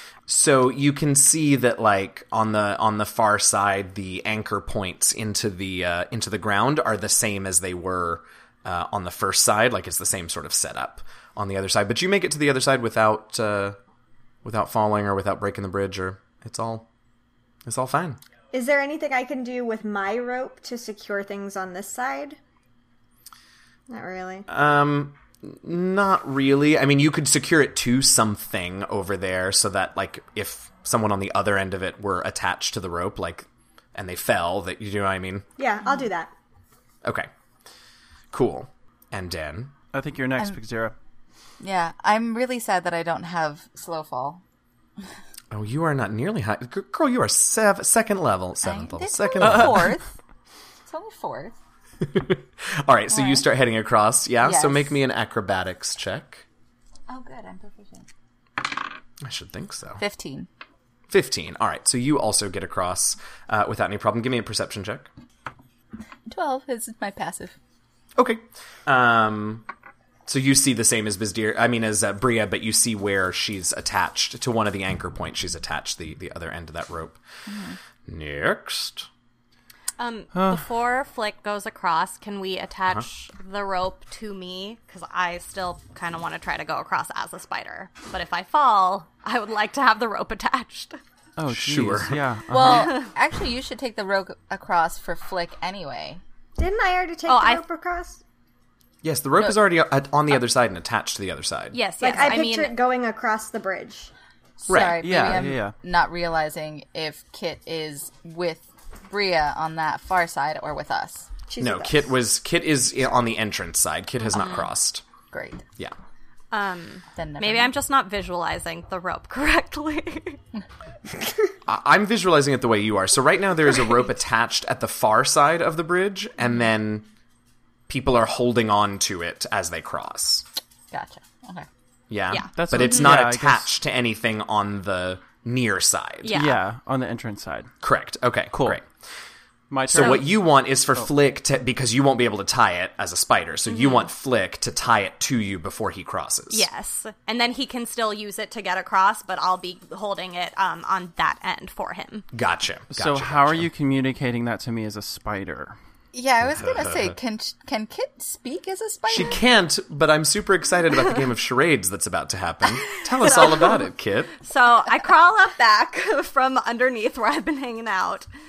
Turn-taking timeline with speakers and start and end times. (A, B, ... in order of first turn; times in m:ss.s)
0:00.3-0:13.8 A
0:14.4-0:16.9 A
0:17.7-0:18.2 A
0:18.5-0:22.4 B
0:23.9-0:24.5 B
0:24.5-0:35.5 A
0:35.6-0:36.3 B
0:37.0-0:37.3 A
0:38.3-0:39.7 A
0:39.9-0:41.0 C
0:41.6-0:44.4 D
0:45.5-0:49.9 A
0:48.6-0:50.1 D
0:49.4-0:49.9 C
0:50.9-0:51.6 D
0:52.0-0:56.4 A
0:53.1-0:53.5 D
0:54.4-0:55.0 D
0:57.1-0:58.1 D
0:59.2-1:00.0 A
1:00.0-1:00.5 D
1:01.1-1:05.1 A
1:06.3-1:07.6 D
1:08.2-1:09.6 A
1:10.3-1:17.2 A
1:17.5-1:17.8 D
1:18.1-1:19.1 A
1:20.0-1:31.0 E
1:20.3-1:20.6 C
1:31.4-1:33.0 C
1:31.5-1:32.2 A
1:32.5-1:36.2 D
1:32.7-1:33.1 E
1:36.6-1:38.2 B
1:37.3-1:37.6 E
1:39.0-1:41.8 A
1:41.7-1:42.8 E
1:42.0-1:44.1 B
1:44.6-1:51.3 D
1:44.7-1:45.4 A
1:44.7-1:45.8 C
1:51.5-1:52.1 B
1:51.6-1:55.0 A
1:54.3-1:54.7 E
1:55.3-1:55.6 D
1:56.5-2:00.4 E
1:57.2-1:57.7 D
2:01.7-2:07.1 A
2:07.9-2:10.4 A
2:10.9-2:11.7 D
2:12.1-2:16.4 A
2:12.3-2:13.1 E
2:12.5-2:13.7 C
2:16.2-2:16.6 E
2:16.3-2:17.7 C
2:17.8-2:18.9 A
2:18.5-2:18.8 C
2:19.7-2:20.3 C
2:19.9-2:26.7 A
2:19.9-2:20.2 E
2:23.7-2:24.1 E
2:26.5-2:32.3 E
2:32.3-2:33.7 A
2:32.9-2:35.8 C
2:36.1-2:39.4 D
2:36.4-2:37.2 A
2:39.1-2:44.4 A
2:43.2-2:43.8 E
2:44.4-2:48.3 E